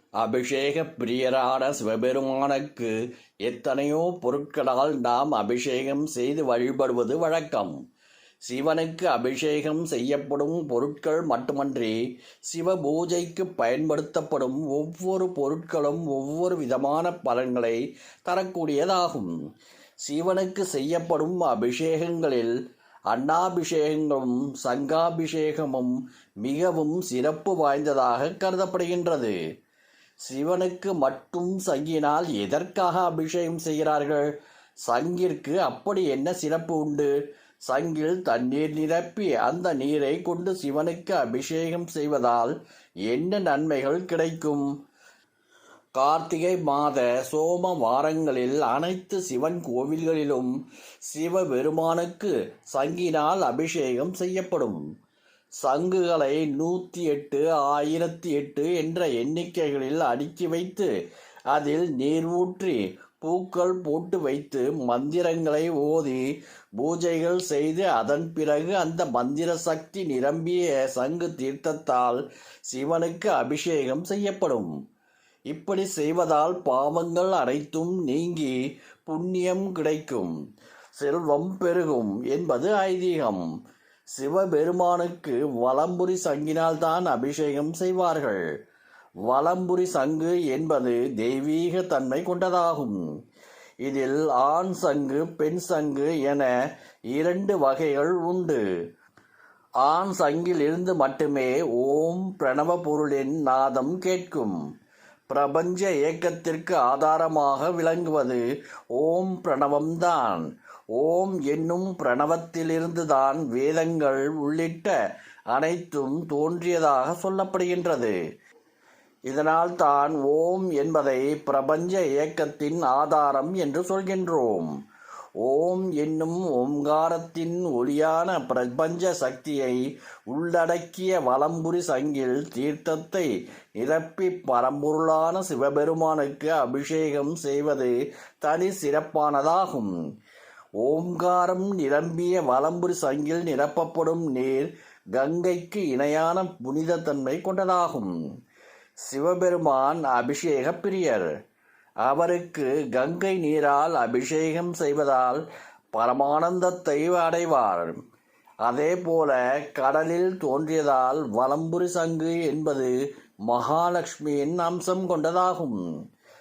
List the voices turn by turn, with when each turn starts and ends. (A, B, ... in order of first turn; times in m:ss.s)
0:00.2-0:07.8 A
0:08.4-0:19.3 A
0:20.0-0:22.6 A
0:23.1-0:29.3 A
0:30.2-0:34.3 A
0:34.8-0:37.1 A
0:37.7-0:42.5 A
0:43.1-0:44.7 A
0:46.0-0:50.6 A
0:51.1-0:54.8 A
0:55.6-1:00.9 A
1:01.5-1:06.2 A
1:06.8-1:14.7 A
1:15.5-1:20.3 A
1:21.0-1:23.5 A
1:24.1-1:28.5 A
1:29.2-1:33.0 A
1:33.8-1:36.5 A
1:37.1-1:38.6 A
1:39.8-1:44.6 A
1:45.3-1:48.4 A
1:48.9-1:55.0 A
1:55.5-1:58.2 A
1:59.3-2:04.7 A
2:05.4-2:19.9 A
2:20.8-2:28.2 A
2:29.0-2:31.3 A
2:32.0-2:38.0 A
2:38.6-2:42.9 A
2:43.4-2:45.8 A